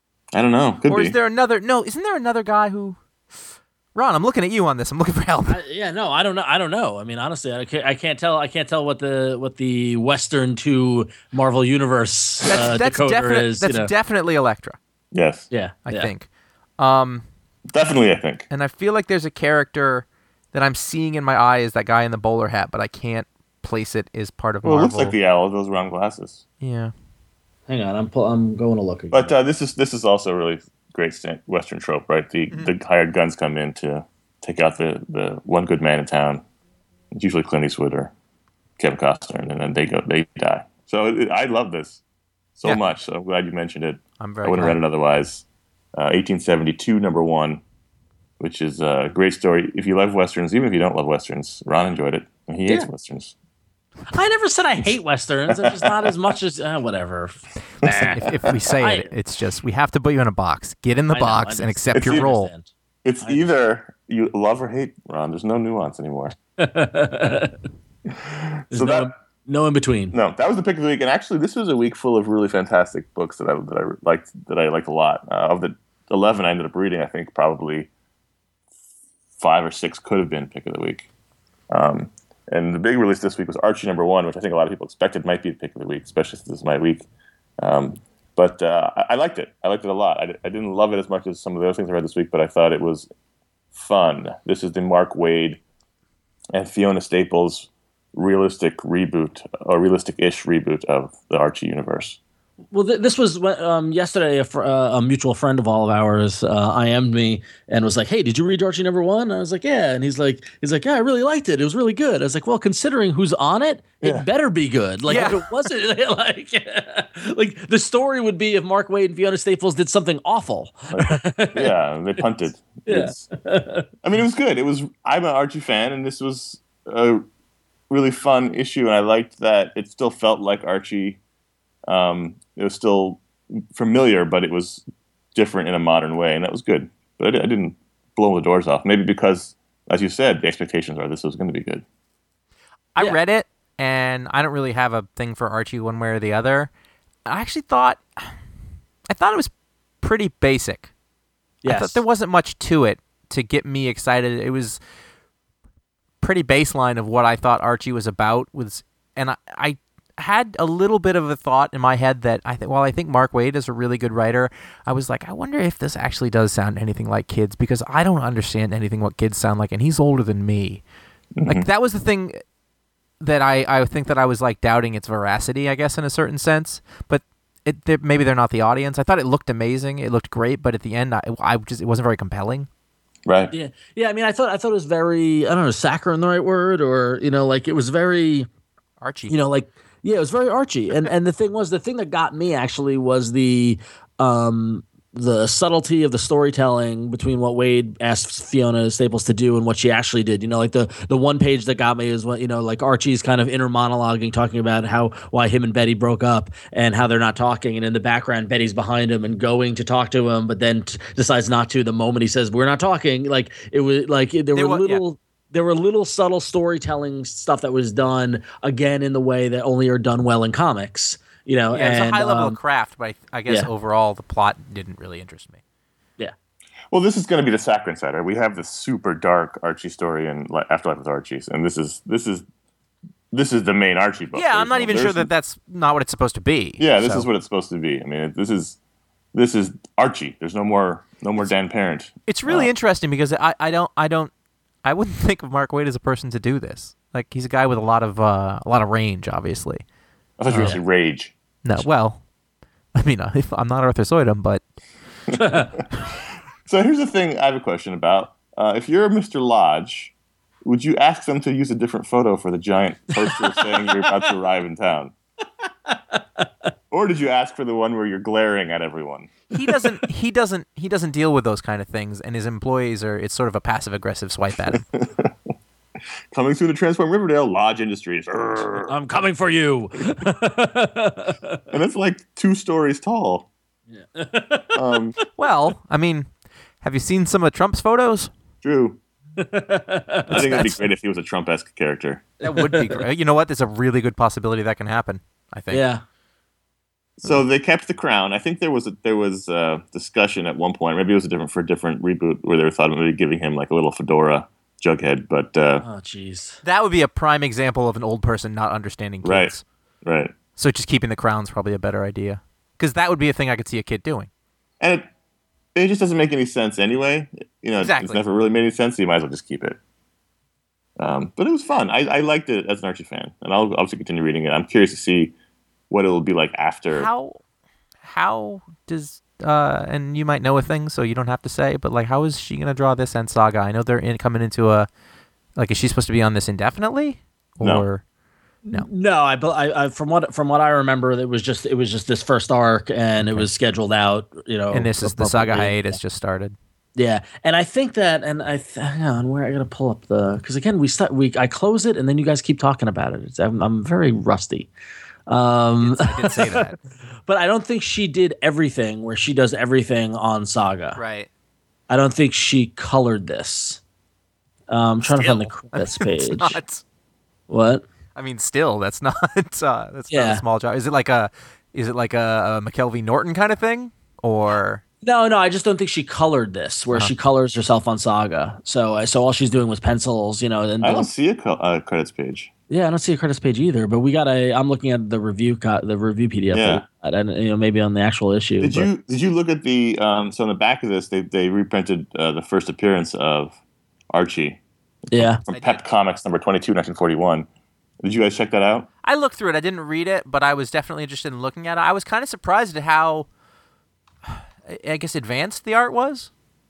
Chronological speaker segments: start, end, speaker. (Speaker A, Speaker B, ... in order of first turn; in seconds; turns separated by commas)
Speaker A: 0.3-1.1, Speaker B: 0.9-3.0, Speaker B: 3.9-5.6, Speaker C: 5.5-13.9, Speaker B: 12.5-14.8, Speaker A: 15.1-15.5, Speaker C: 15.5-16.1, Speaker B: 15.9-16.3, Speaker B: 16.8-17.2, Speaker A: 17.7-18.4, Speaker B: 18.5-25.1, Speaker A: 24.6-26.4, Speaker B: 26.6-26.9, Speaker C: 27.7-29.3, Speaker A: 29.1-36.4, Speaker A: 37.1-38.1, Speaker A: 38.8-42.0, Speaker A: 42.5-47.6, Speaker B: 44.2-44.8, Speaker A: 48.4-53.3, Speaker C: 54.1-59.1, Speaker A: 55.5-55.9, Speaker B: 57.8-62.5, Speaker C: 61.1-62.7, Speaker A: 61.9-62.2, Speaker A: 63.0-66.3, Speaker C: 63.2-63.5, Speaker C: 66.6-67.6, Speaker A: 68.1-69.1, Speaker C: 68.7-70.1, Speaker A: 70.1-77.9, Speaker A: 79.4-81.1, Speaker A: 81.7-87.0, Speaker A: 87.6-93.1, Speaker A: 93.7-95.6, Speaker A: 96.5-102.2, Speaker C: 102.7-121.7, Speaker B: 115.1-115.5, Speaker A: 120.9-123.2, Speaker C: 122.8-123.9, Speaker A: 124.0-127.2, Speaker A: 127.9-131.2, Speaker A: 131.9-134.8, Speaker A: 135.3-141.8, Speaker B: 142.9-146.7, Speaker B: 147.2-148.3, Speaker B: 149.1-150.9, Speaker C: 151.6-152.0, Speaker B: 151.7-154.8, Speaker B: 156.2-170.8, Speaker A: 171.3-171.7, Speaker B: 171.4-172.4, Speaker B: 173.2-182.7, Speaker A: 183.2-183.5, Speaker C: 183.5-188.5, Speaker B: 189.0-189.4, Speaker C: 189.3-222.6, Speaker B: 214.5-215.0, Speaker B: 221.7-225.6, Speaker A: 226.9-232.4, Speaker A: 233.3-235.3, Speaker B: 234.3-237.3, Speaker A: 236.8-238.8, Speaker A: 239.3-242.7, Speaker B: 242.3-244.3, Speaker B: 244.8-249.8, Speaker A: 250.4-251.8, Speaker B: 250.5-250.8, Speaker C: 250.5-250.8, Speaker B: 251.6-252.2, Speaker B: 252.9-254.6, Speaker C: 255.4-255.7, Speaker A: 256.6-260.1, Speaker A: 260.6-265.1, Speaker C: 265.9-266.4, Speaker A: 266.9-269.4, Speaker B: 269.5-274.8, Speaker A: 274.7-275.3, Speaker A: 276.3-278.9, Speaker C: 278.9-281.6, Speaker A: 281.7-283.5, Speaker C: 283.9-284.8, Speaker A: 284.7-285.1, Speaker B: 285.4-286.3, Speaker B: 286.8-288.3, Speaker A: 288.6-289.0, Speaker C: 289.4-290.7, Speaker A: 290.3-292.2, Speaker B: 290.3-290.8, Speaker C: 292.4-293.1, Speaker B: 292.4-295.8, Speaker C: 295.7-296.0, Speaker A: 297.2-305.8, Speaker C: 305.8-306.6, Speaker B: 306.6-309.6, Speaker A: 309.2-310.3, Speaker B: 310.6-314.3, Speaker A: 314.8-315.1, Speaker A: 315.7-319.8, Speaker B: 317.8-318.2, Speaker A: 321.0-325.3, Speaker A: 325.9-327.1, Speaker B: 326.9-327.4, Speaker B: 328.0-334.9, Speaker B: 335.6-338.0, Speaker A: 337.6-337.9, Speaker C: 338.7-346.0, Speaker B: 343.2-343.5, Speaker B: 344.7-346.6, Speaker C: 346.9-354.7, Speaker C: 355.3-356.7, Speaker B: 355.8-356.8, Speaker C: 357.2-361.0, Speaker B: 360.9-361.3, Speaker C: 361.9-363.8, Speaker C: 364.7-366.6, Speaker B: 365.1-366.8, Speaker C: 367.5-367.8, Speaker B: 368.1-374.8, Speaker C: 370.1-370.4, Speaker C: 375.0-381.1, Speaker A: 380.8-382.5, Speaker C: 382.7-388.9, Speaker A: 386.5-386.8, Speaker A: 388.6-393.6, Speaker A: 394.1-394.6, Speaker A: 395.1-397.5, Speaker C: 395.1-395.4, Speaker B: 395.5-395.8, Speaker A: 398.0-398.9, Speaker B: 399.0-403.3, Speaker B: 404.3-406.3